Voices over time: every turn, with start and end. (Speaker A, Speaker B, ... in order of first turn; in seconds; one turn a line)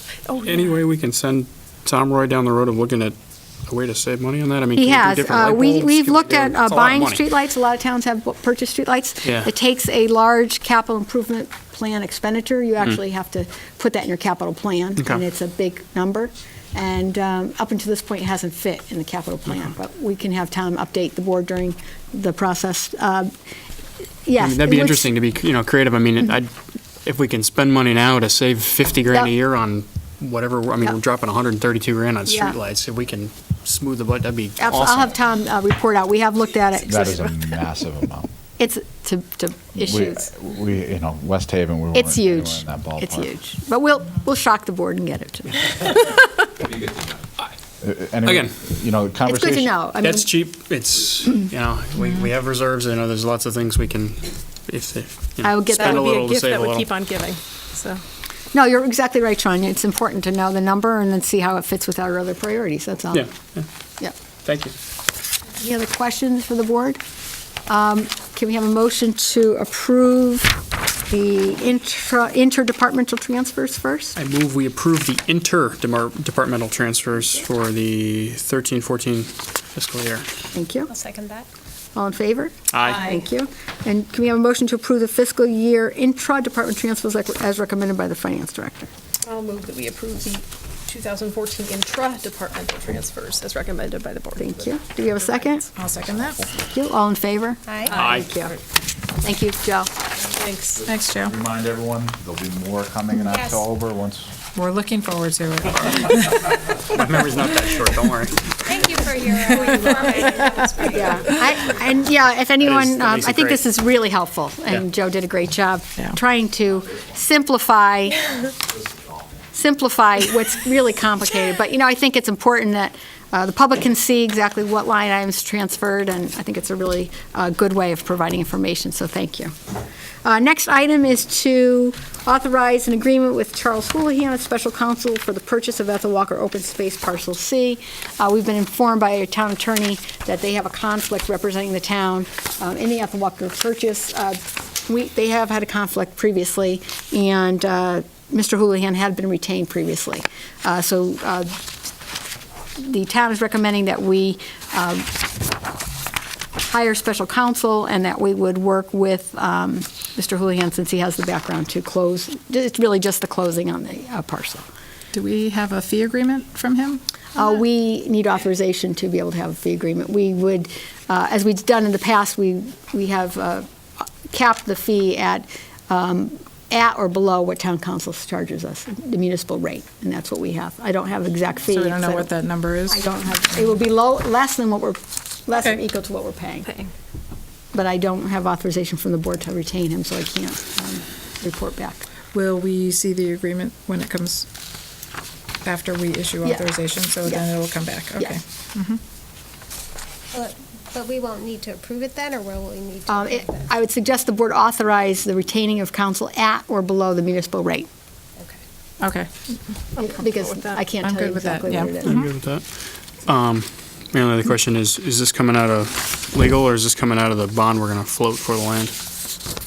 Speaker A: 0.3-0.6
Speaker B: 0.4-3.1
Speaker B: 3.7-7.2
Speaker C: 4.8-23.3
Speaker B: 15.0-15.2
Speaker C: 24.2-25.1
Speaker B: 24.4-26.5
Speaker B: 27.1-35.2
Speaker C: 32.3-32.6
Speaker C: 34.6-37.5
Speaker D: 36.9-38.3
Speaker C: 38.6-40.3
Speaker D: 39.8-43.3
Speaker C: 41.9-46.4
Speaker D: 47.8-49.7
Speaker B: 48.2-48.6
Speaker C: 49.2-50.4
Speaker B: 50.0-56.9
Speaker C: 55.4-56.1
Speaker A: 55.7-58.0
Speaker C: 58.5-63.3
Speaker B: 63.1-63.7
Speaker B: 64.5-64.7
Speaker C: 65.6-67.0
Speaker C: 67.7-74.2
Speaker B: 74.2-80.3
Speaker C: 80.5-80.9
Speaker E: 80.9-81.5
Speaker C: 82.0-88.9
Speaker B: 82.7-83.1
Speaker A: 89.3-94.6
Speaker C: 94.4-95.7
Speaker F: 95.8-96.5
Speaker C: 96.5-97.6
Speaker E: 97.7-98.0
Speaker A: 97.9-98.6
Speaker B: 98.0-98.5
Speaker C: 99.2-99.9
Speaker A: 100.3-100.9
Speaker F: 100.8-101.3
Speaker D: 101.2-104.3
Speaker E: 103.2-103.6
Speaker F: 104.5-106.3
Speaker B: 106.9-108.5
Speaker E: 108.7-111.7
Speaker C: 110.9-118.4
Speaker B: 112.6-113.6
Speaker C: 119.5-129.5
Speaker C: 130.2-151.6
Speaker C: 152.8-155.1
Speaker C: 156.7-164.7
Speaker F: 165.1-167.0
Speaker C: 167.3-182.3
Speaker F: 181.7-183.1
Speaker C: 182.9-186.7
Speaker C: 187.7-192.1
Speaker F: 192.3-194.5
Speaker F: 195.6-199.0
Speaker E: 200.3-203.7
Speaker C: 203.1-207.9
Speaker F: 209.0-209.3
Speaker A: 210.0-210.9
Speaker C: 210.0-212.2
Speaker F: 211.0-212.3
Speaker B: 212.0-218.9